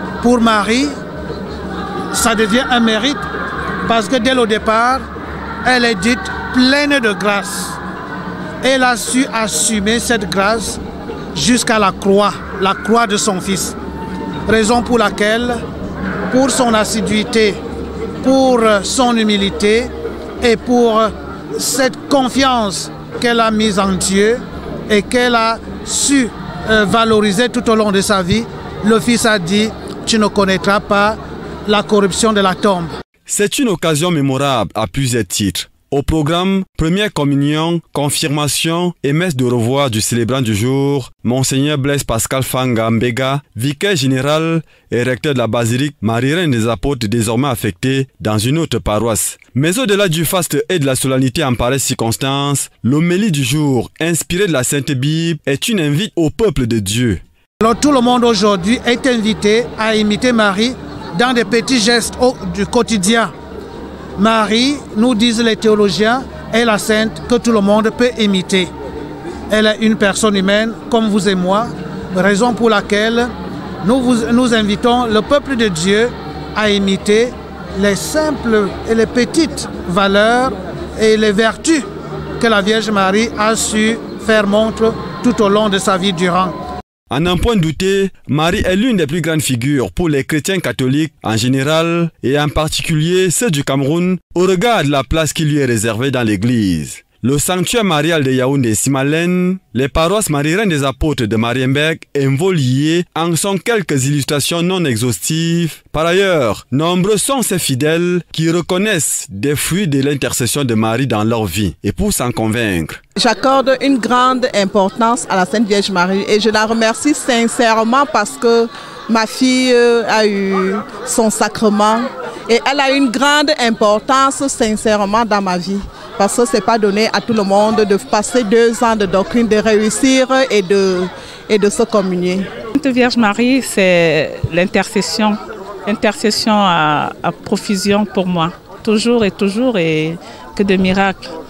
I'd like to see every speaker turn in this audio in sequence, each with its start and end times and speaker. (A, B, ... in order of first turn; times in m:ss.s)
0:00.2-0:00.9 A
0:02.1-0:03.2 A
0:03.8-0:05.0 A
0:05.6-0:07.8 A
0:08.6-0:10.8 A
0:11.3-0:13.8 A
0:14.5-0:15.6 A
0:16.3-0:17.6 A
0:18.2-0:19.9 A
0:20.4-0:32.9 A
0:33.3-0:57.2 B
0:57.6-1:03.3 A
1:04.2-1:08.7 A
1:09.5-1:13.3 A
1:13.8-1:21.8 A
1:22.4-1:26.6 A
1:27.1-1:53.0 B
1:53.2-2:12.5 C
2:12.7-2:21.3 D